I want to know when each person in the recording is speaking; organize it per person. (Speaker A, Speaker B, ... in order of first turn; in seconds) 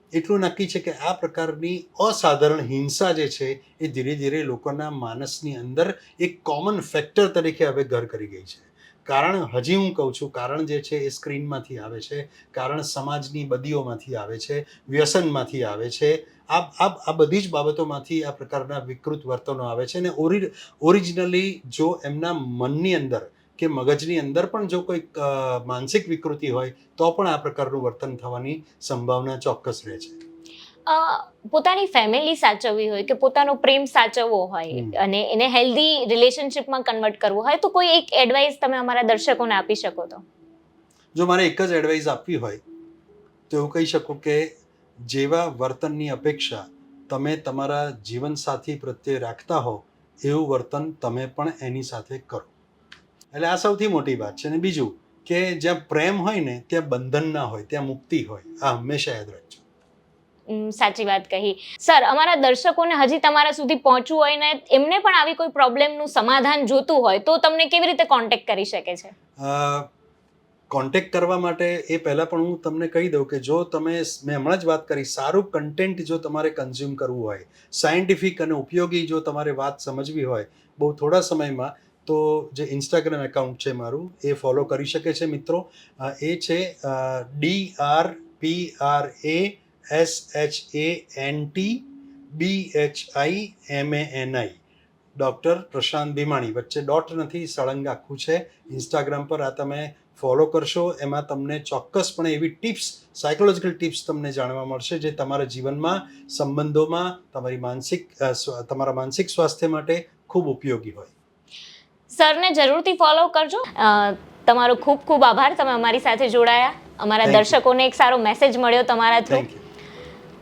Speaker A: 0.1-30.2, 34.7-35.0, 41.1-42.6, 43.5-44.5, 45.0-52.5, 53.3-59.6, 69.4-69.9, 70.7-94.6, 95.2-111.1, 117.2-117.6, 119.3-119.6
Speaker B: 30.9-40.2, 60.5-69.1, 112.1-119.4